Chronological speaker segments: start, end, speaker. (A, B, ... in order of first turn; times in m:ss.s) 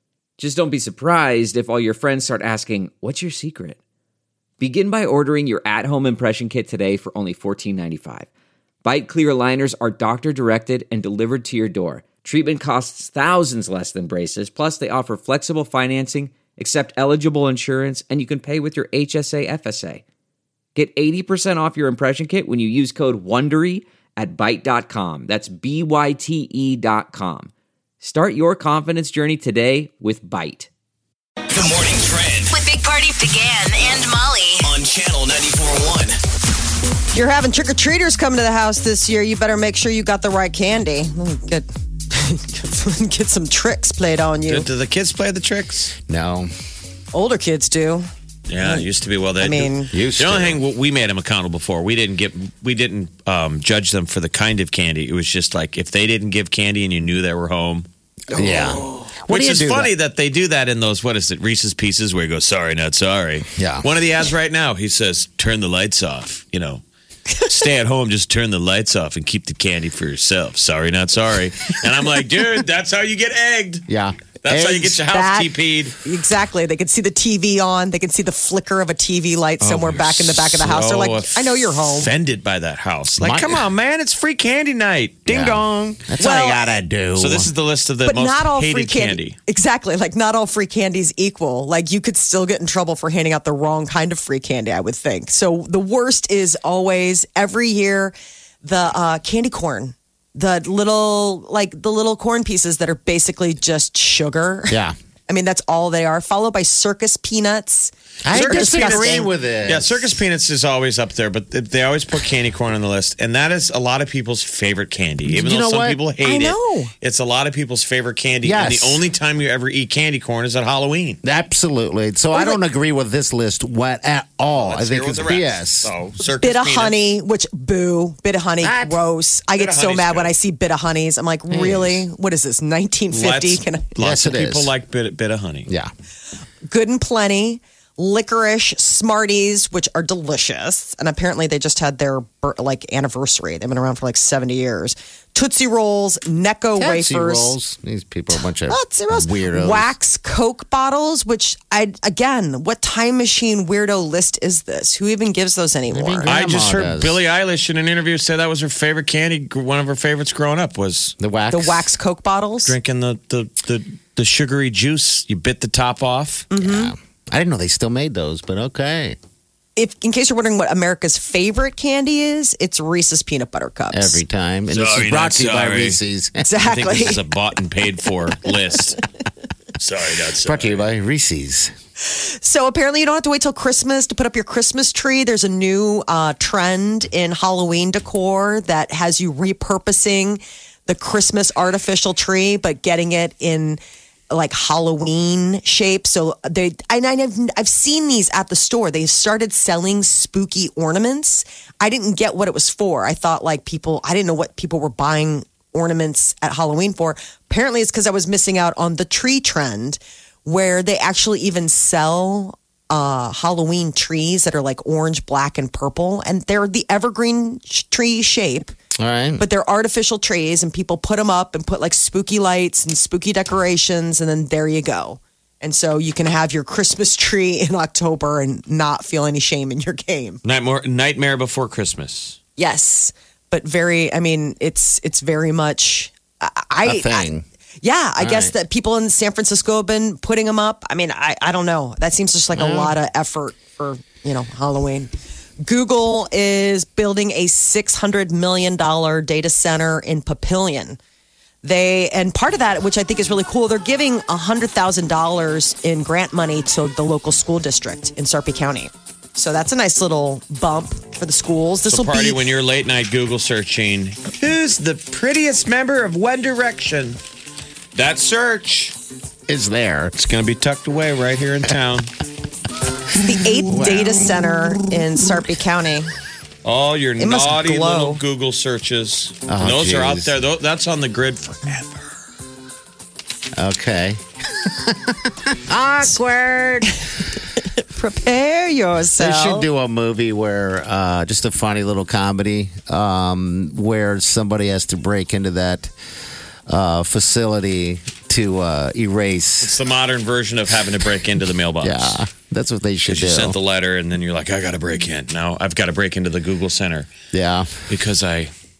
0:00.4-0:03.8 A
0:04.6-0:08.3 A
0:08.8-0:20.0 A
0:20.7-0:30.7 A
0:31.5-0:32.5 B
0:32.5-0:34.7 C
0:34.6-0:36.2 B
0:37.1-0:44.7 D
0:44.5-0:45.9 E
0:46.1-0:46.5 F
0:47.1-0:48.1 D
0:48.5-0:57.8 E
0:49.4-0:49.9 D
0:49.9-0:50.6 F
0:58.3-0:59.9 F
0:58.4-0:58.7 E
0:59.3-1:06.8 E
1:03.6-1:03.9 F
1:07.4-1:13.8 E
1:13.9-1:15.0 F
1:14.4-1:15.9 E
1:15.1-1:15.5 D
1:16.0-1:22.1 D
1:19.6-1:26.0 E
1:23.2-1:23.7 F
1:25.3-1:27.5 F
1:26.2-1:26.8 D
1:27.2-1:29.4 E
1:28.0-1:49.3 D
1:44.7-1:44.9 F
1:48.2-1:50.1 F
1:48.3-2:01.2 E
1:55.2-1:56.0 F
1:56.2-1:56.9 D
1:58.4-1:59.0 F
2:01.2-2:05.9 F
2:02.3-2:02.6 D
2:04.6-2:07.0 E
2:06.4-2:13.9 D
2:08.6-2:09.0 F
2:09.5-2:10.3 E
2:11.5-2:12.0 F
2:13.1-2:15.7 E
2:14.0-2:14.7 F
2:16.7-2:27.5 D
2:26.8-2:29.9 F
2:28.7-2:36.3 D
2:35.9-2:37.2 F
2:36.2-2:41.2 E
2:41.2-2:41.8 F
2:41.5-2:42.8 D
2:42.6-2:46.5 E
2:46.5-2:46.9 D
2:46.6-2:49.2 F
2:49.8-2:54.2 D
2:53.9-2:56.5 F
2:54.7-2:56.0 E
2:56.4-2:57.2 D
2:56.6-2:59.0 E
2:59.8-3:00.8 E
3:00.4-3:01.7 F
3:02.0-3:38.7 D
3:39.0-3:39.4 F
3:39.4-3:50.4 D
3:50.4-3:52.4 E
3:52.6-3:57.2 D
3:56.8-3:57.4 F
3:57.8-4:05.1 D
3:58.2-3:58.5 F
4:02.5-4:02.9 F
4:05.6-4:11.0 D
4:11.6-4:22.4 D
4:21.8-4:27.2 E
4:27.9-4:28.9 E
4:29.5-4:30.1 F
4:30.1-4:32.1 E
4:33.2-4:36.1 D
4:33.7-4:34.2 F
4:36.6-4:42.1 E
4:37.2-4:38.2 D
4:39.5-4:40.3 F
4:43.6-4:47.0 F
4:47.9-4:49.6 D
4:49.2-4:55.9 F
4:56.7-4:59.7 F
4:59.6-5:02.2 E
5:01.8-5:03.6 F
5:03.0-5:07.1 E
5:07.3-5:07.7 F
5:07.9-5:08.5 E